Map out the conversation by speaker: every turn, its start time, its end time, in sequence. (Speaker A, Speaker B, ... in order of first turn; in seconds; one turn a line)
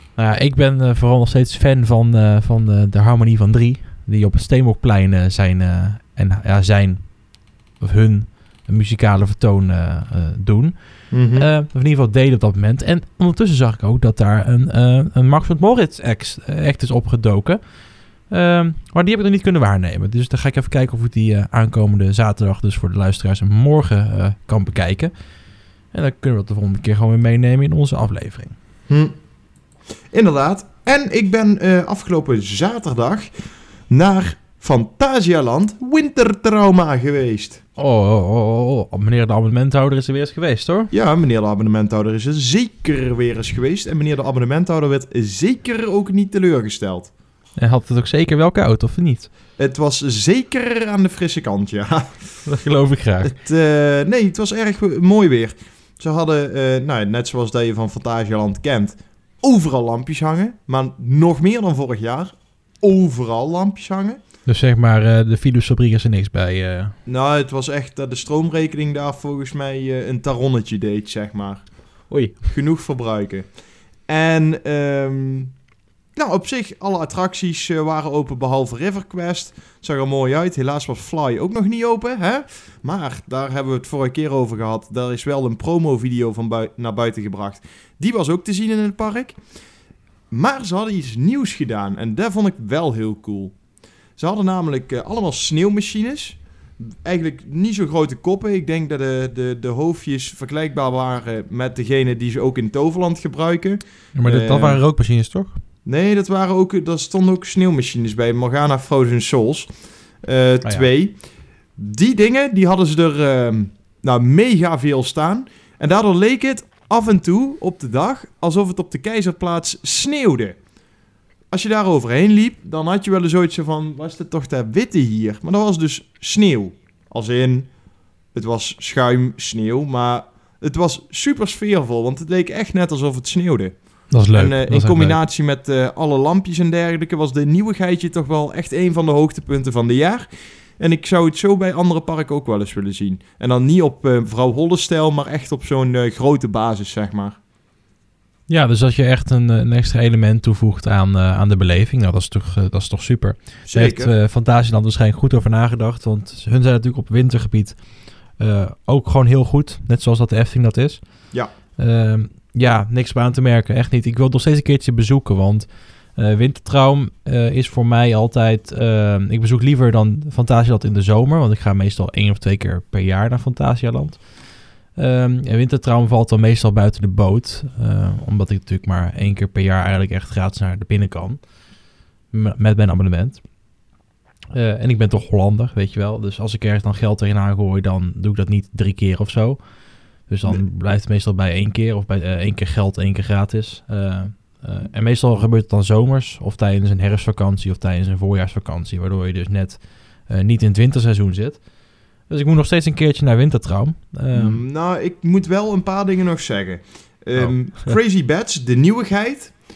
Speaker A: 0.2-28.5
Speaker B: 11.1-11.5
Speaker B: 28.9-29.1
Speaker B: 30.1-33.3
Speaker B: 33.9-37.6
Speaker A: 37.8-40.9
Speaker B: 40.9-47.1
Speaker A: 47.6-49.3
Speaker B: 49.6-52.5
Speaker A: 52.5-53.3
Speaker B: 53.2-64.2
Speaker A: 64.5-67.0
Speaker B: 67.0-75.5
Speaker A: 72.1-72.4
Speaker B: 76.2-89.4
Speaker B: 90.3-93.6
Speaker B: 94.2-104.8
Speaker A: 104.1-105.6
Speaker B: 105.8-111.2
Speaker B: 111.8-120.6
Speaker B: 121.5-127.7
Speaker B: 128.3-147.4
Speaker A: 134.1-135.2
Speaker A: 148.5-181.7
Speaker B: 153.7-154.1
Speaker A: 182.3-183.5
Speaker A: 184.5-204.6
Speaker B: 204.3-209.5
Speaker A: 207.3-207.9